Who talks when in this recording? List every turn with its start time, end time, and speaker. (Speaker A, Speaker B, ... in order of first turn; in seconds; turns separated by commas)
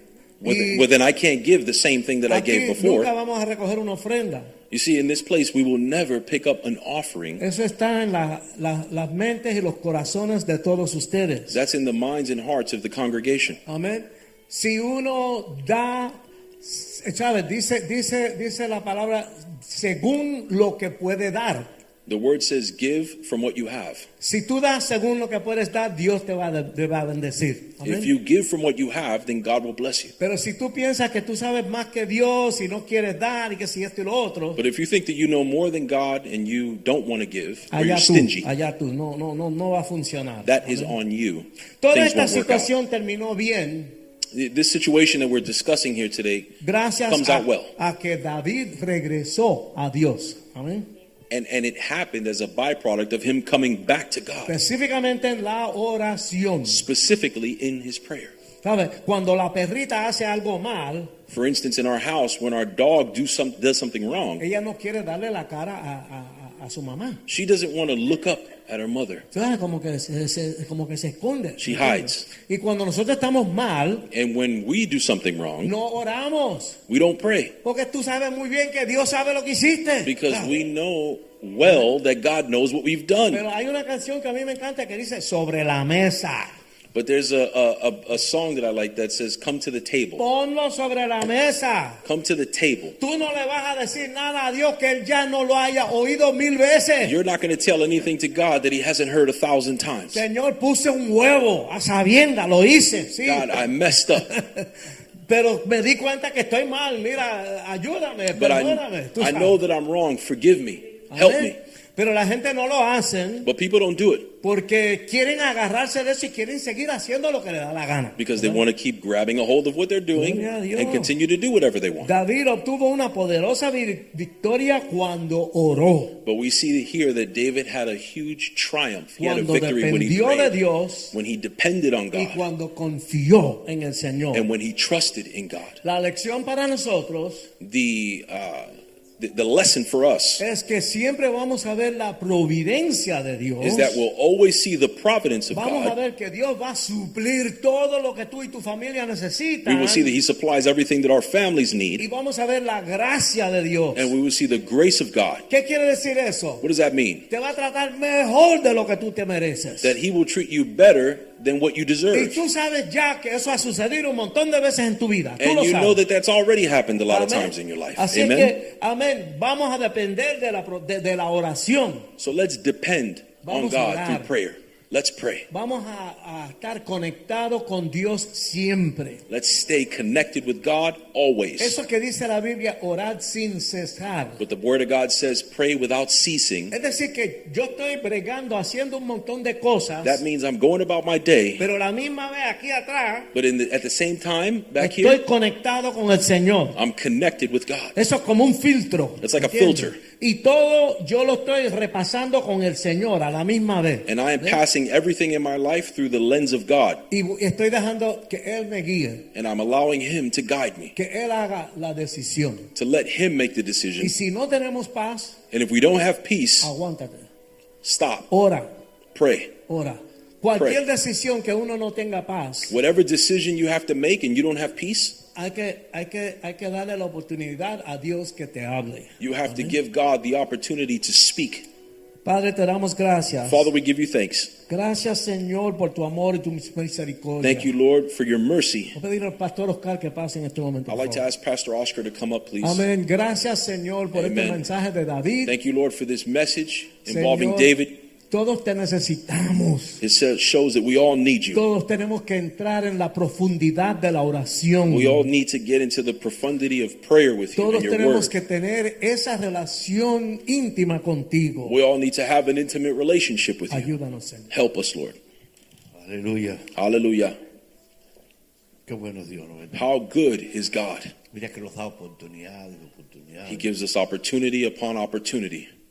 Speaker A: 0.4-3.1, Speaker B: 0.4-0.9, Speaker B: 2.3-4.5, Speaker A: 4.7-7.4, Speaker B: 7.4-11.6, Speaker A: 11.5-13.6, Speaker B: 13.7-21.7, Speaker A: 22.1-24.1, Speaker B: 24.2-28.1, Speaker A: 27.8-30.1, Speaker B: 30.2-34.6, Speaker A: 34.5-38.5, Speaker B: 37.7-40.9, Speaker A: 40.4-42.7, Speaker B: 41.8-43.9, Speaker A: 44.3-46.5, Speaker B: 46.6-50.9, Speaker A: 47.1-47.7, Speaker A: 51.3-54.5, Speaker B: 54.5-56.8, Speaker A: 56.7-58.3, Speaker B: 58.6-61.1, Speaker A: 61.3-64.4, Speaker B: 64.4-67.2, Speaker A: 67.3-69.3, Speaker B: 69.3-74.1, Speaker A: 71.6-72.2, Speaker A: 74.1-75.7, Speaker B: 75.6-76.8, Speaker A: 76.9-77.5, Speaker B: 77.6-80.5, Speaker A: 80.0-83.4, Speaker B: 83.3-86.5, Speaker A: 86.9-90.2, Speaker B: 90.2-92.0, Speaker A: 92.0-93.0, Speaker B: 93.0-97.2, Speaker A: 97.0-100.2, Speaker B: 100.1-104.7, Speaker A: 103.2-104.3, Speaker B: 105.3-109.6, Speaker A: 108.3-111.6, Speaker B: 111.1-113.5, Speaker A: 113.4-114.3, Speaker B: 114.4-118.6, Speaker A: 118.2-122.1, Speaker B: 120.1-121.1, Speaker B: 122.0-126.2, Speaker A: 126.2-130.6, Speaker B: 129.2-131.1, Speaker A: 131.1-132.4, Speaker B: 132.1-134.5, Speaker A: 134.3-135.8, Speaker B: 135.8-137.5, Speaker A: 137.6-140.4, Speaker B: 140.4-144.0, Speaker A: 143.6-145.9, Speaker B: 145.5-150.1, Speaker A: 149.6-152.0, Speaker B: 152.0-154.1, Speaker A: 153.9-155.4, Speaker B: 155.5-156.6, Speaker A: 156.6-157.2, Speaker B: 157.3-159.9, Speaker A: 159.8-162.4, Speaker B: 162.1-166.0, Speaker A: 165.4-168.5, Speaker B: 167.1-172.1, Speaker A: 172.2-175.5, Speaker B: 173.4-174.3, Speaker B: 175.5-179.2, Speaker A: 179.3-181.8, Speaker B: 181.6-184.4, Speaker A: 184.4-186.7, Speaker B: 186.7-190.2, Speaker A: 190.0-191.6, Speaker B: 191.6-193.3, Speaker A: 193.3-195.2, Speaker B: 194.8-196.8, Speaker A: 196.7-197.9, Speaker B: 197.9-204.6, Speaker A: 199.2-200.0, Speaker A: 204.1-207.0, Speaker B: 207.1-209.2, Speaker A: 209.3-210.9, Speaker B: 210.9-212.7, Speaker A: 212.7-214.1, Speaker B: 214.0-215.4, Speaker A: 215.5-216.7, Speaker B: 216.6-217.3, Speaker A: 217.8-218.3, Speaker B: 218.3-218.7, Speaker A: 219.1-219.5, Speaker B: 219.7-222.7, Speaker A: 220.5-220.8, Speaker A: 222.7-225.2, Speaker B: 225.3-229.7, Speaker A: 229.2-231.7, Speaker B: 232.2-233.7, Speaker A: 233.5-234.5, Speaker B: 234.7-237.7, Speaker A: 237.4-238.9, Speaker B: 238.9-241.2, Speaker A: 240.9-242.8, Speaker B: 242.6-245.5, Speaker A: 244.1-244.6, Speaker A: 245.4-248.0, Speaker B: 247.1-247.7, Speaker B: 248.3-250.0, Speaker A: 250.0-251.6, Speaker B: 251.5-255.2, Speaker A: 254.9-258.3, Speaker B: 257.5-261.8, Speaker A: 261.6-263.9, Speaker B: 263.7-264.5, Speaker A: 264.5-265.2, Speaker C: 265.9-266.7, Speaker A: 266.7-267.4, Speaker C: 268.9-269.9, Speaker A: 269.7-271.1, Speaker C: 271.3-273.6, Speaker A: 273.5-275.7